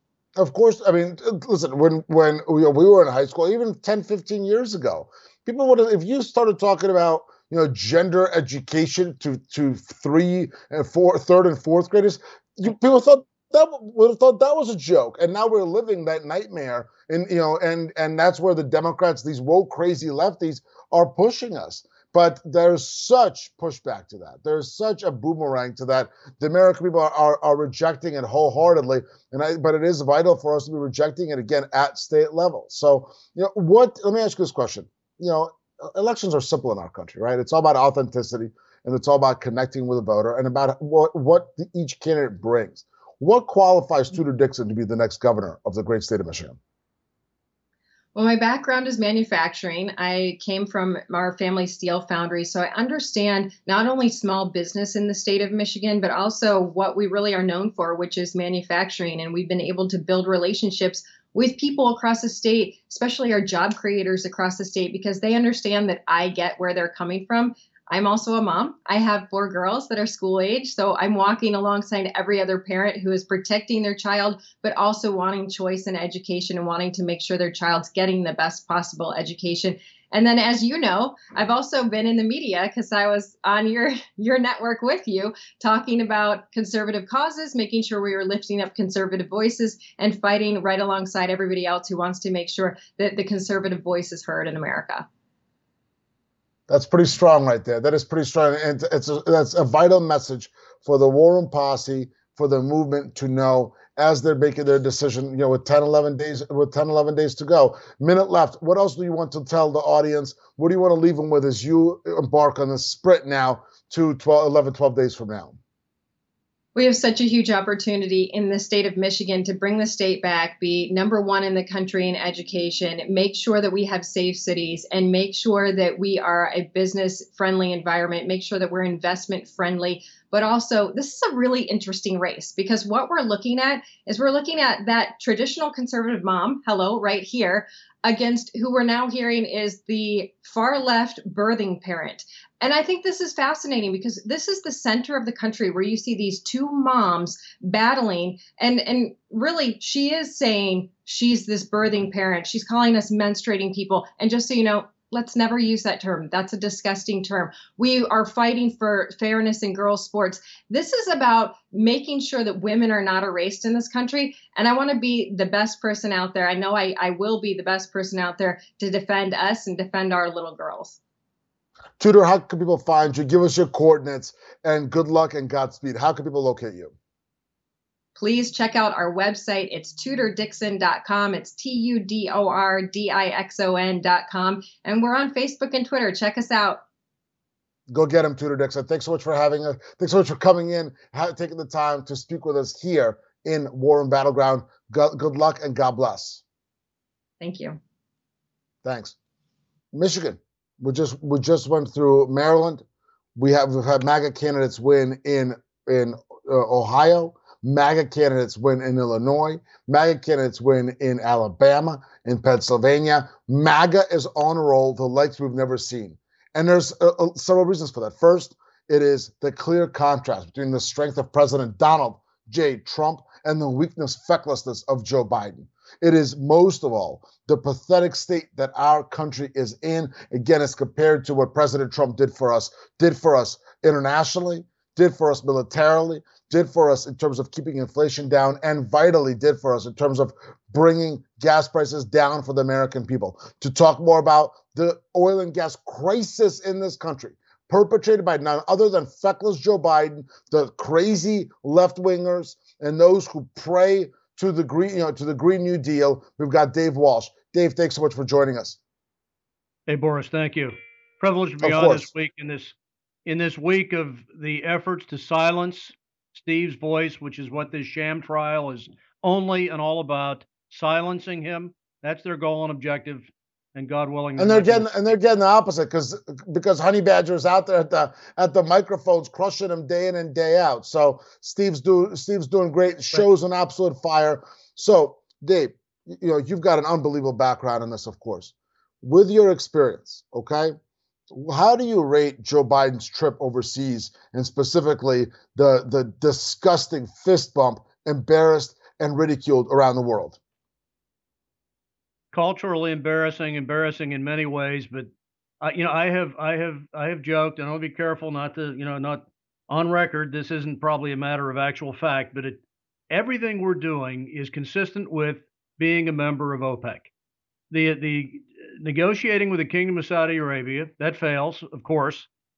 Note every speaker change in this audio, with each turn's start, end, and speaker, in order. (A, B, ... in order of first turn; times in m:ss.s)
0:00.4-0:46.6 A
0:48.1-1:35.1 B
1:36.7-1:55.6 A
1:56.7-2:51.0 B
2:52.0-2:56.9 A
2:58.2-3:06.8 B
3:07.9-3:16.4 A
3:17.4-3:17.8 B
3:18.8-3:19.1 A
3:19.9-3:22.8 A
3:23.4-4:18.8 A
4:19.9-4:22.7 C
4:21.6-4:22.1 A
4:23.3-4:35.0 C
4:34.4-4:50.7 A
4:51.3-5:00.4 A
5:02.3-5:05.1 C
5:05.6-5:17.1 C
5:17.7-5:22.3 C